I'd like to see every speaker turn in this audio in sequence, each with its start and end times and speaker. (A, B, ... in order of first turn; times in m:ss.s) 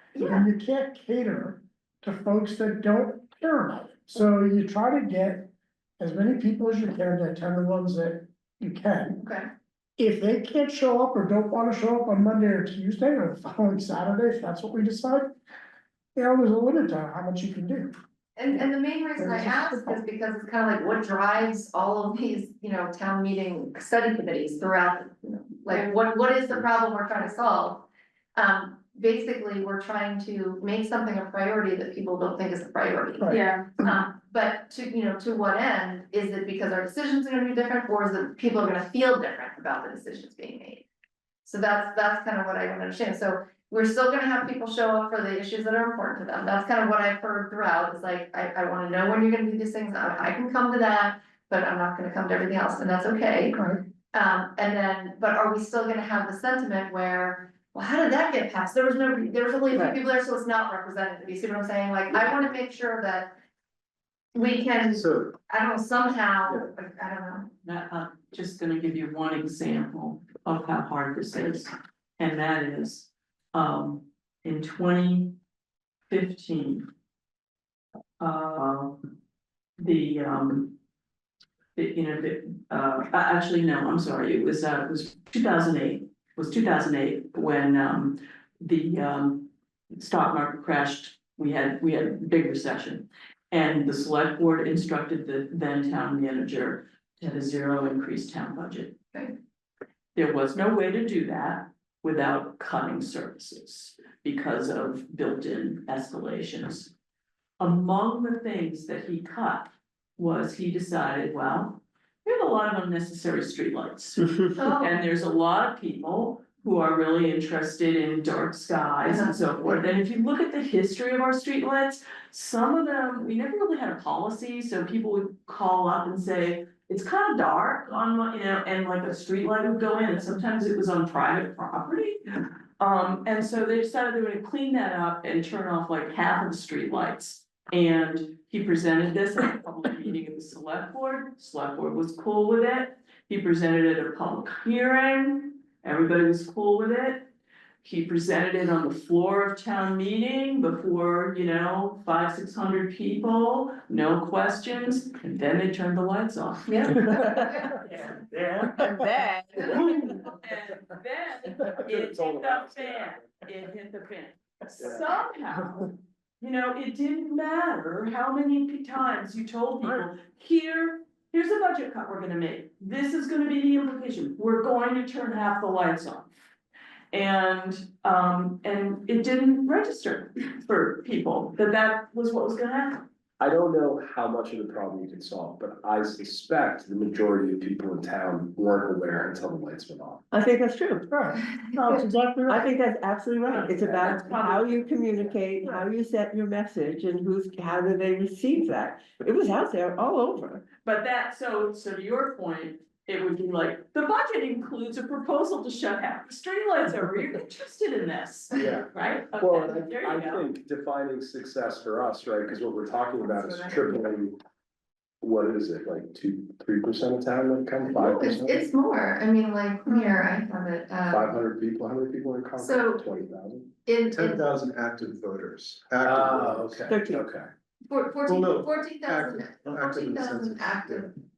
0:00.2-0:00.4 A
0:00.2-0:09.2 B
0:09.2-0:09.4 A
0:10.0-0:15.3 B
0:16.2-0:17.9 B
0:18.4-0:40.8 A
0:19.2-0:20.0 B
0:33.2-0:34.0 B
0:41.4-0:53.6 A
0:53.5-0:53.8 B
0:54.1-1:03.3 A
0:59.7-1:00.0 C
1:04.3-1:07.5 A
1:04.9-1:05.3 D
1:07.6-1:15.3 E
1:16.1-1:16.9 E
1:18.2-1:19.0 E
1:19.8-1:20.7 E
1:21.8-1:39.0 E
1:40.1-1:46.9 E
1:47.6-2:12.3 E
1:54.6-1:55.0 A
1:59.0-1:59.7 A
2:12.8-2:27.3 E
2:27.8-2:38.2 E
2:36.7-2:37.8 A
2:36.9-2:37.7 C
2:38.7-2:40.1 C
2:39.6-2:56.3 E
2:41.8-2:43.4 F
2:44.8-2:45.1 F
2:57.1-3:03.0 E
3:03.4-3:10.2 F
3:10.3-3:11.1 C
3:11.1-3:12.2 B
3:11.8-3:20.6 C
3:13.5-3:15.4 E
3:20.8-3:30.5 E
3:28.5-3:34.4 F
3:33.2-3:34.1 A
3:35.2-3:38.6 F
3:37.8-3:41.3 A
3:41.1-3:43.7 F
3:42.6-3:43.0 A
3:43.8-3:44.4 A
3:44.1-3:46.9 D
3:46.0-3:47.5 F
3:46.8-3:47.2 C
3:47.9-3:51.1 A
3:48.2-3:51.1 D